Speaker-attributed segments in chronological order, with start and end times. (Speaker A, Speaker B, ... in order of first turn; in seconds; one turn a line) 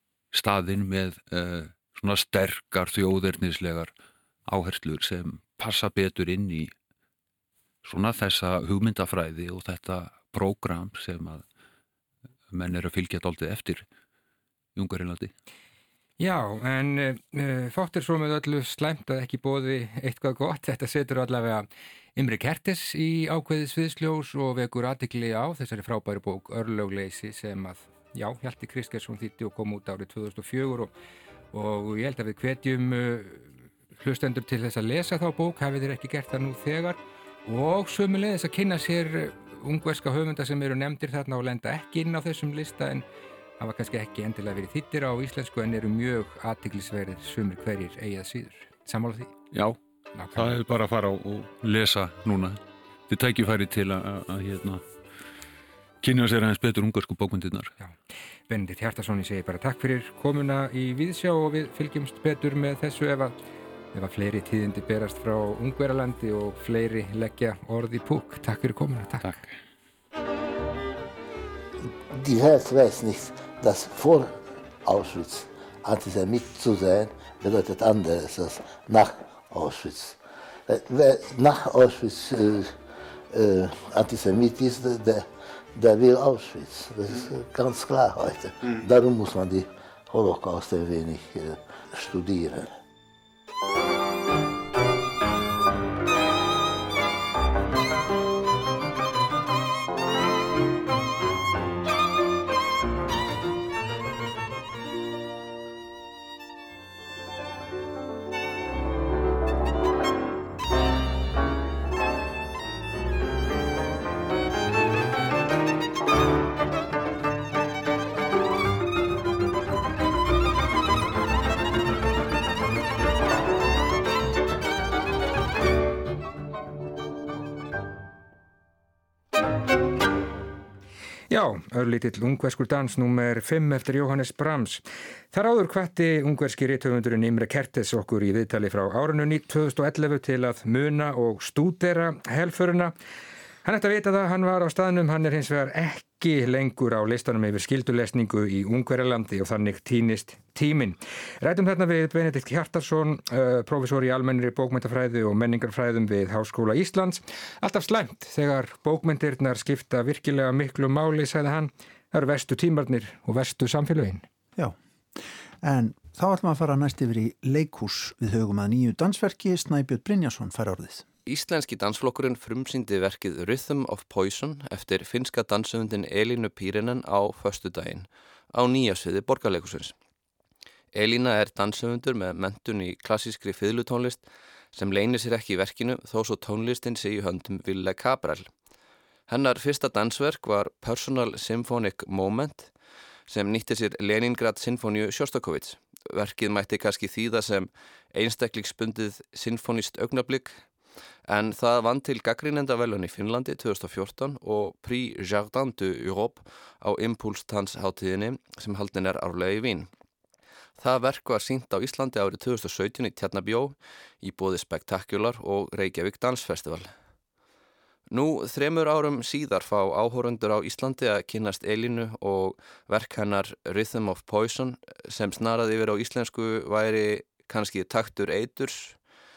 Speaker A: 0.3-3.9
Speaker A: 4.5-6.7
Speaker A: 7.8-11.4
Speaker A: 12.5-13.8
Speaker A: 14.8-15.3
Speaker B: 16.2-30.9
Speaker B: 31.5-43.0
Speaker B: 43.6-49.4
Speaker A: 49.5-49.8
Speaker B: 50.1-50.5
Speaker A: 50.4-54.9
Speaker A: 56.0-57.7
Speaker B: 58.5-63.4
Speaker B: 63.9-69.3
Speaker A: 69.2-69.5
Speaker C: 72.1-82.8
Speaker C: 83.3-92.7
Speaker B: 131.3-142.9
Speaker B: 143.6-164.2
Speaker D: 165.6-171.1
Speaker E: 171.3-179.9
Speaker E: 180.9-188.5
Speaker E: 189.3-192.7
Speaker E: 193.3-200.6
Speaker E: 201.3-209.9
Speaker E: 210.8-216.9
Speaker E: 218.1-229.0